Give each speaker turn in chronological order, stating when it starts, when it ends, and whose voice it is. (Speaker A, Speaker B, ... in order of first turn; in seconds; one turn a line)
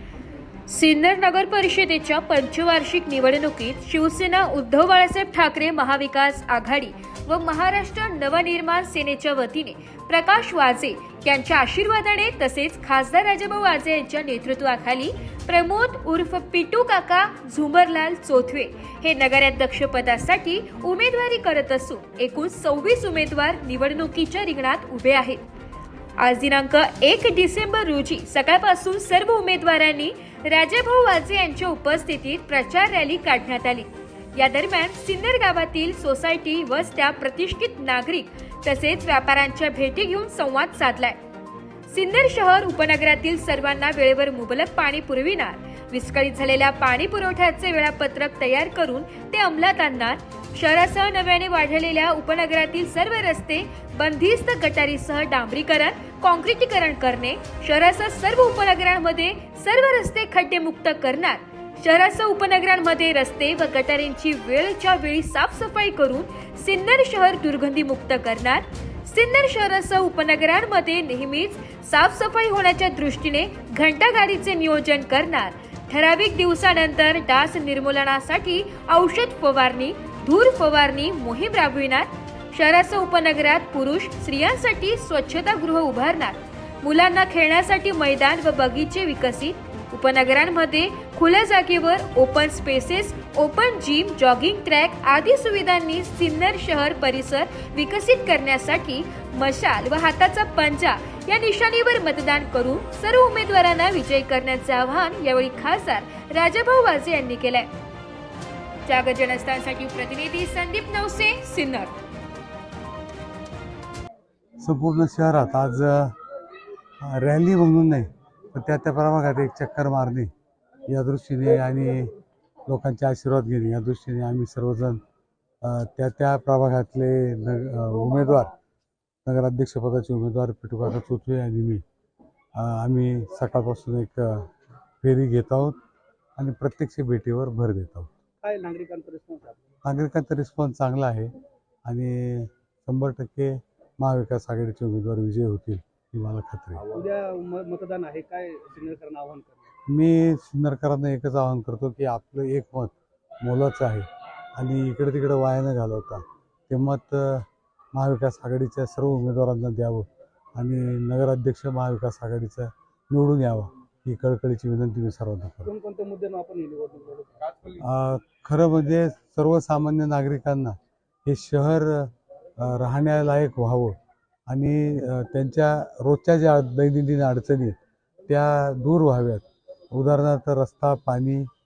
Speaker A: 0.7-25.4
Speaker A: 26.2-41.2
Speaker A: 41.9-107.7
Speaker A: 108.8-111.9
Speaker B: 114.6-116.2
Speaker B: 117.0-120.3
Speaker B: 120.9-122.1
Speaker B: 122.7-125.0
Speaker B: 125.6-128.5
Speaker B: 129.2-131.8
Speaker B: 132.5-135.8
Speaker B: 136.4-138.1
Speaker C: 138.4-139.7
Speaker B: 139.8-141.3
Speaker B: 141.9-146.9
Speaker C: 146.9-149.7
Speaker B: 149.9-165.7
Speaker C: 165.6-167.7
Speaker B: 167.8-173.9
Speaker B: 174.5-177.8
Speaker B: 178.3-181.5